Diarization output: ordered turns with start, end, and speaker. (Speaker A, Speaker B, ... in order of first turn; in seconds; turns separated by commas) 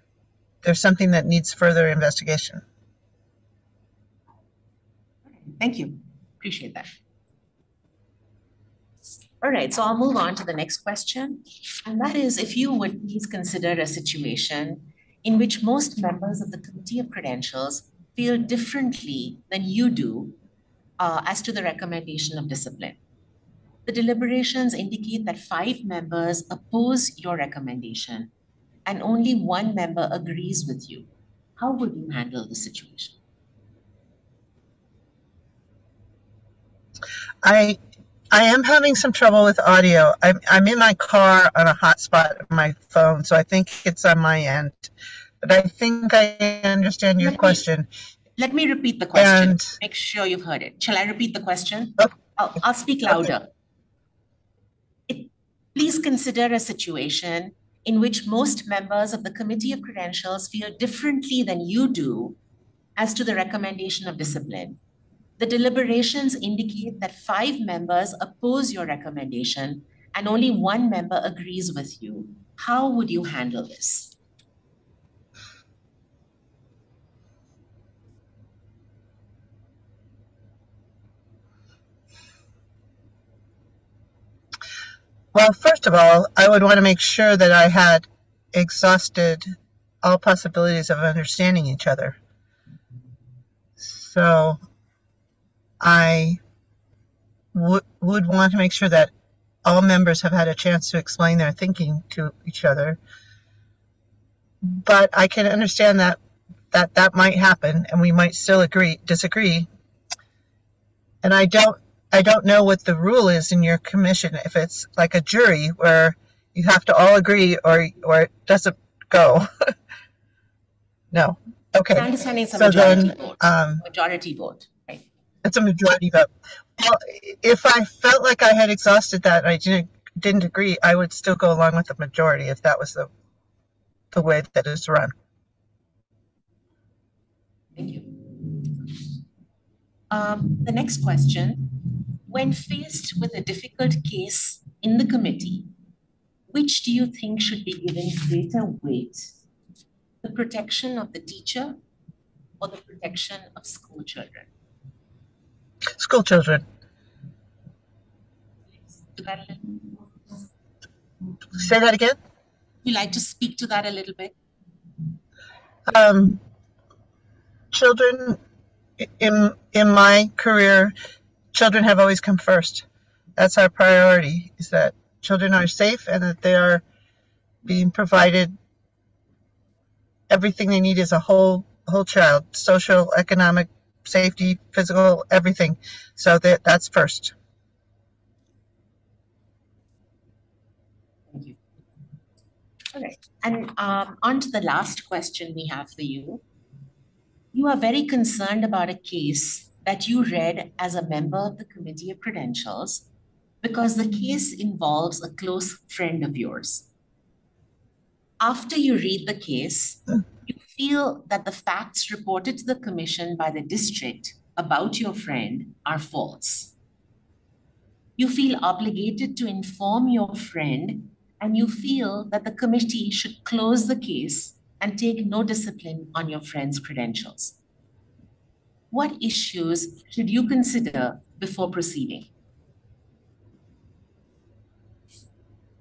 Speaker A: 0.6-2.6, Speaker B: 5.3-6.9, Speaker B: 9.4-20.4, Speaker B: 21.0-23.0, Speaker B: 23.9-28.3, Speaker B: 28.9-33.2, Speaker A: 37.4-37.8, Speaker A: 38.3-47.9, Speaker B: 47.2-47.6, Speaker B: 48.4-53.5, Speaker A: 49.1-49.7, Speaker B: 55.1-62.4, Speaker B: 63.0-64.8, Speaker B: 65.4-74.2, Speaker A: 85.3-92.2, Speaker A: 93.8-94.6, Speaker A: 95.8-96.4, Speaker A: 97.5-99.1, Speaker A: 99.7-103.0, Speaker A: 104.6-106.2, Speaker A: 106.7-109.7, Speaker A: 111.2-119.7, Speaker A: 121.1-123.8, Speaker B: 122.0-125.0, Speaker A: 125.4-133.1, Speaker A: 134.1-135.1, Speaker B: 137.8-138.9, Speaker B: 140.1-145.7, Speaker B: 146.5-149.3, Speaker B: 150.2-151.8, Speaker B: 152.6-154.5, Speaker A: 156.0-156.6, Speaker B: 158.9-160.4, Speaker A: 161.5-162.2, Speaker B: 162.8-164.3, Speaker A: 165.9-166.4, Speaker A: 167.7-168.4, Speaker A: 169.0-170.9, Speaker A: 171.5-172.8, Speaker A: 173.4-176.8, Speaker A: 177.7-178.5, Speaker A: 180.3-187.3, Speaker B: 191.3-191.6, Speaker B: 192.9-196.4, Speaker B: 197.5-203.1, Speaker B: 203.6-206.9, Speaker B: 208.4-216.7, Speaker B: 218.2-227.6, Speaker B: 228.9-232.3